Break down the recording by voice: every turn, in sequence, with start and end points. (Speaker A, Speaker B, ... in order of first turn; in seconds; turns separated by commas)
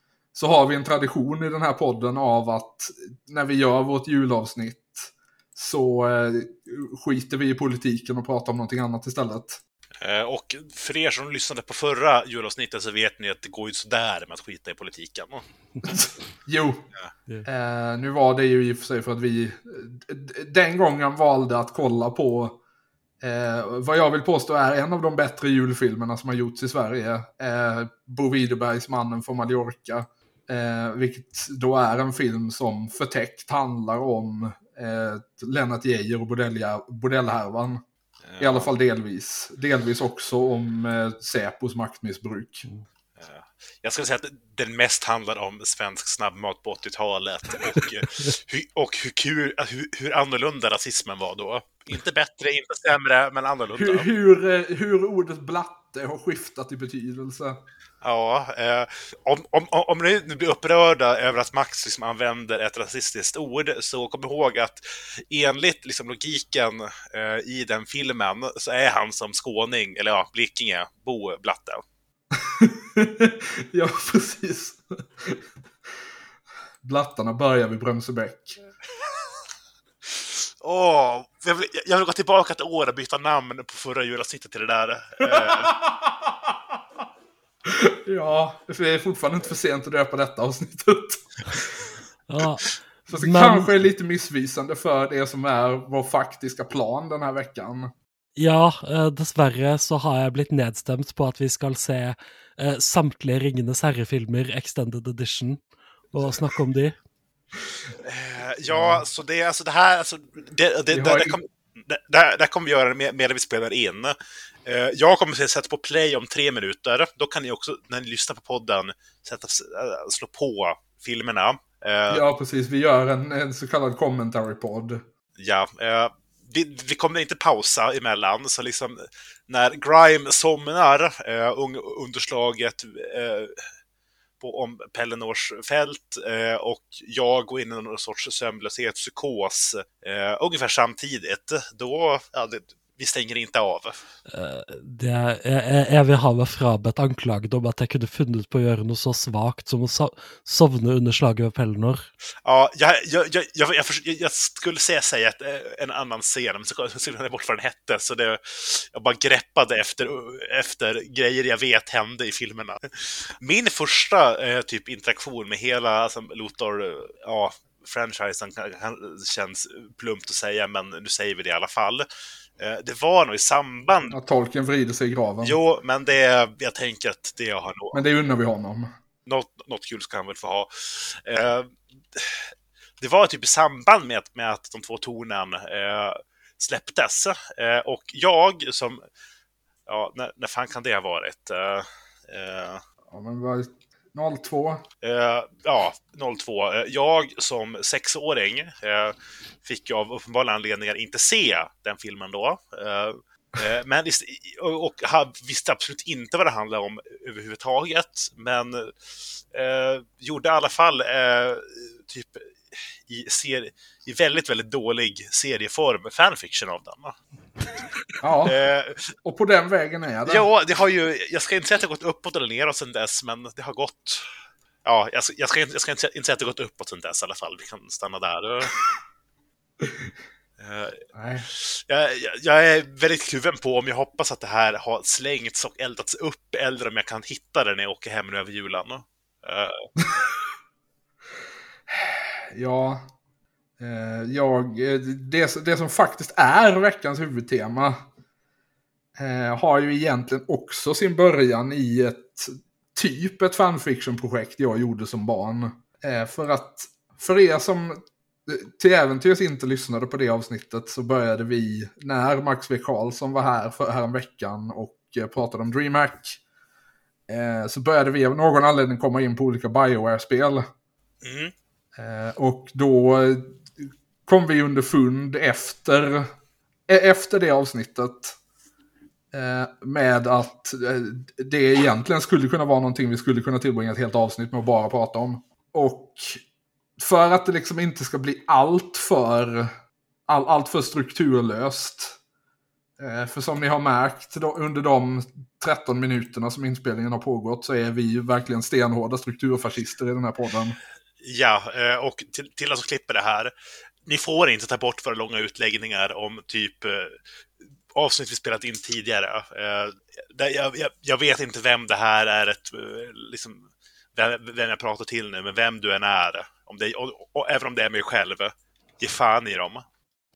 Speaker A: 0.3-9.6, Speaker B: 10.0-15.4, Speaker A: 15.8-16.9, Speaker A: 17.4-22.6, Speaker A: 23.2-37.8, Speaker B: 38.2-38.7, Speaker A: 38.4-42.6, Speaker B: 43.2-54.1, Speaker A: 53.8-57.6, Speaker B: 58.0-71.8, Speaker A: 72.3-75.4, Speaker A: 76.8-78.6, Speaker B: 80.2-85.7, Speaker A: 85.2-86.5, Speaker A: 87.6-91.7, Speaker C: 92.3-93.8, Speaker A: 93.1-97.9, Speaker C: 98.4-105.6, Speaker C: 106.1-107.0, Speaker B: 108.0-114.1, Speaker A: 108.7-109.0, Speaker A: 110.9-111.4, Speaker B: 114.7-122.2, Speaker A: 122.1-125.0, Speaker B: 125.4-133.7, Speaker B: 134.4-144.0, Speaker C: 144.3-152.1, Speaker B: 152.4-172.0, Speaker B: 172.6-174.1, Speaker A: 174.1-175.6, Speaker B: 175.4-178.0, Speaker A: 177.9-178.9, Speaker B: 179.2-182.5, Speaker B: 183.0-189.0, Speaker B: 189.9-192.8, Speaker A: 193.1-194.8, Speaker B: 195.0-208.9, Speaker B: 209.5-217.1, Speaker A: 218.2-218.6, Speaker B: 218.4-219.1, Speaker A: 219.2-220.4, Speaker B: 220.2-224.3, Speaker B: 224.8-228.8, Speaker B: 230.6-231.0, Speaker A: 231.1-231.5, Speaker B: 231.5-239.9, Speaker A: 240.0-240.3, Speaker A: 241.9-243.0, Speaker A: 243.8-248.0, Speaker A: 249.2-266.4, Speaker A: 267.3-270.6, Speaker B: 271.2-271.5, Speaker A: 271.9-276.3, Speaker A: 276.9-278.4, Speaker A: 279.3-286.4, Speaker A: 287.0-289.7, Speaker A: 290.3-292.2, Speaker A: 293.0-300.8, Speaker B: 301.2-303.5, Speaker B: 304.0-307.2, Speaker B: 307.9-319.8